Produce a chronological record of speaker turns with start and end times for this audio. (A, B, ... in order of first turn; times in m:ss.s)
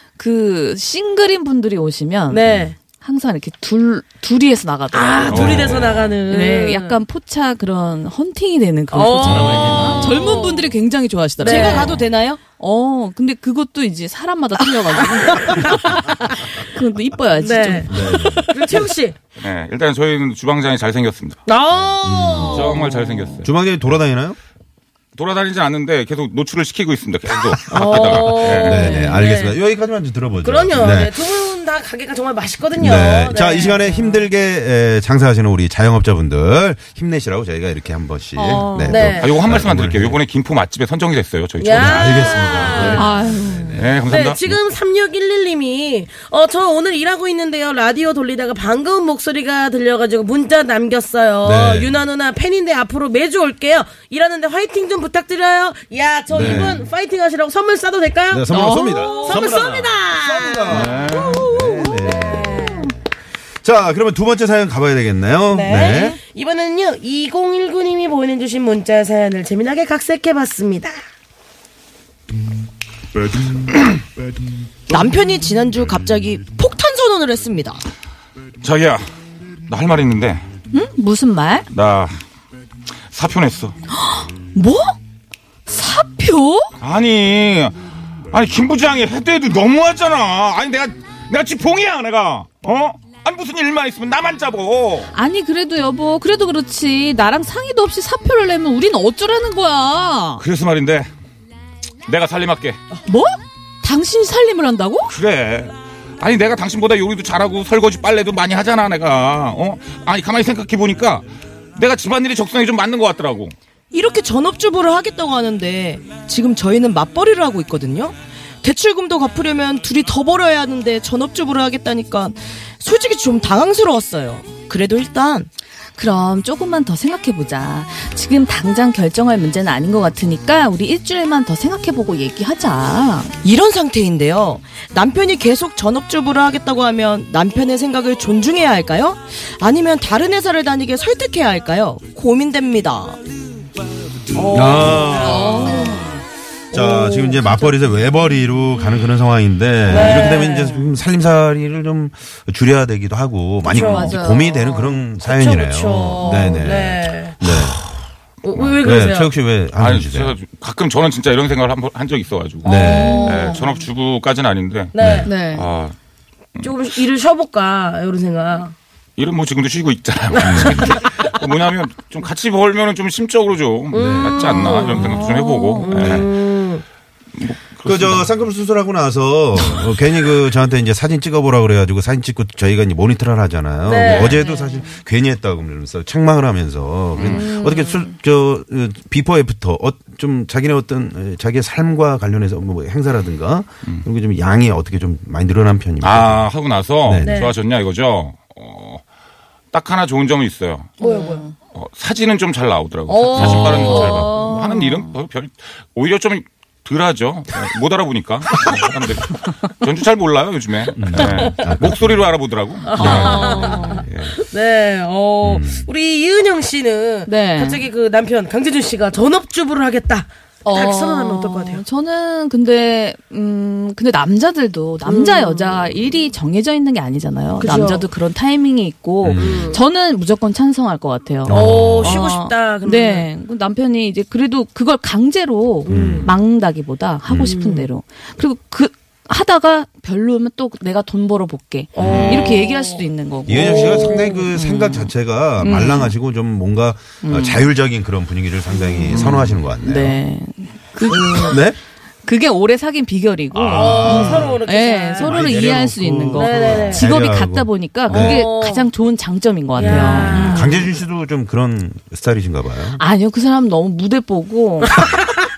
0:00.2-0:02.5 A
0:02.3-0:02.8 B
0:02.4-0:02.7 C
0:03.0-0:05.7 A
0:04.9-0:07.0 B
0:05.3-0:06.0 D
0:05.4-0:05.8 C
0:06.3-0:12.0 A
0:08.9-0:10.7 B
0:09.3-0:10.0 D
0:09.4-0:09.9 C
0:09.8-0:10.2 E
0:11.4-0:12.0 B
0:11.4-0:12.4 E
0:12.6-0:18.6 A
0:15.4-0:15.7 B
0:17.4-0:17.9 B
0:17.9-0:18.5 C
0:18.5-0:19.2 B
0:19.4-0:21.4 D
0:21.5-0:23.0 B
0:21.9-0:22.8 C
0:22.5-0:23.5 D
0:23.4-0:24.4 C
0:25.2-0:29.0 D
0:27.7-0:29.6 B
0:28.0-0:31.2 C
0:28.7-0:29.2 A
0:30.4-0:34.3 B
0:32.8-0:40.2 C
0:38.3-0:39.2 A
0:38.8-0:39.4 B
0:39.2-0:43.0 D
0:41.6-0:43.2 B
0:41.7-0:43.9 C
0:42.9-0:43.9 A
0:43.7-0:44.4 D
0:44.1-0:58.5 B
0:51.4-0:52.0 C
0:56.3-0:56.8 C
0:58.3-1:03.0 C
0:58.5-0:59.5 A
0:59.0-1:02.9 B
1:00.7-1:01.5 D
1:02.1-1:02.9 A
1:03.6-1:06.2 C
1:05.5-1:10.9 B
1:14.9-1:17.8 E
1:18.6-1:19.0 D
1:19.7-1:20.4 D
1:20.7-1:21.7 A
1:21.7-1:22.2 D
1:23.1-1:23.8 D
1:23.9-1:25.0 A
1:25.7-1:26.7 A
1:26.8-1:27.8 D
1:28.3-1:35.1 D
1:35.1-1:40.4 A
1:40.4-1:41.1 D
1:42.0-1:42.8 D
1:43.1-1:45.1 A
1:45.1-1:53.5 D
1:53.9-2:05.5 E
2:06.0-2:13.3 A
2:13.4-2:23.2 E
2:24.3-2:25.7 B
2:24.5-2:26.1 C
2:25.1-2:26.2 A
2:26.7-2:27.4 B
2:26.7-2:37.8 C
2:27.4-2:27.8 A
2:29.9-2:30.8 B
2:33.6-2:34.2 B
2:33.7-2:35.0 A
2:35.2-2:37.4 B
2:36.3-2:36.6 A
2:37.4-2:37.8 D
2:38.4-2:39.3 B
2:38.5-2:38.8 D
2:38.8-2:40.4 C
2:39.8-2:46.0 D
2:42.6-2:43.7 B
2:42.6-2:43.5 C
2:42.7-2:43.6 A
2:44.9-2:45.3 B
2:45.0-2:45.3 C
2:45.2-2:45.7 A
2:46.6-2:46.9 D
2:46.6-2:48.7 B
2:49.2-2:56.3 D
2:50.4-2:51.0 B
2:50.4-2:51.0 C
2:53.9-2:55.2 B
2:54.0-2:54.4 C
2:54.4-2:56.2 A
2:55.8-2:56.8 B
2:57.3-2:58.4 D
2:57.8-3:16.5 C
3:03.8-3:04.4 B
3:04.0-3:05.0 A
3:07.2-3:07.4 D
3:07.3-3:08.1 A
3:16.0-3:19.0 D
3:17.0-3:17.4 C
3:17.2-3:17.5 B
3:19.7-3:21.0 D
3:21.0-3:21.4 B
3:21.0-3:21.5 A
3:21.7-3:34.3 D
3:23.1-3:24.3 B
3:23.4-3:24.2 C
3:23.7-3:25.1 A
3:31.0-3:32.3 C
3:31.2-3:31.5 B
3:32.8-3:41.8 B
3:33.0-3:34.0 A
3:35.4-3:35.9 C
3:37.3-3:37.8 A
3:40.6-4:06.2 A
3:45.0-3:45.8 B
3:47.6-3:48.1 B
3:49.2-3:49.8 C
3:49.3-3:49.8 B
3:51.4-3:52.3 C
3:51.5-3:53.3 B
3:55.8-3:56.3 B
3:55.9-3:56.4 C
3:57.3-3:57.6 C
3:57.4-3:57.9 B
4:02.0-4:04.4 B
4:02.0-4:02.5 D
4:02.0-4:02.5 C
4:03.5-4:10.2 C
4:07.2-4:07.7 A
4:09.1-4:09.6 D
4:09.8-4:11.7 A
4:11.3-4:11.8 C
4:12.2-4:20.9 A
4:13.5-4:14.6 C
4:13.7-4:15.5 B
4:15.2-4:18.5 C
4:16.3-4:17.1 B
4:18.1-4:18.9 B
4:19.8-4:20.8 B
4:19.8-4:23.0 C
4:22.9-4:25.0 A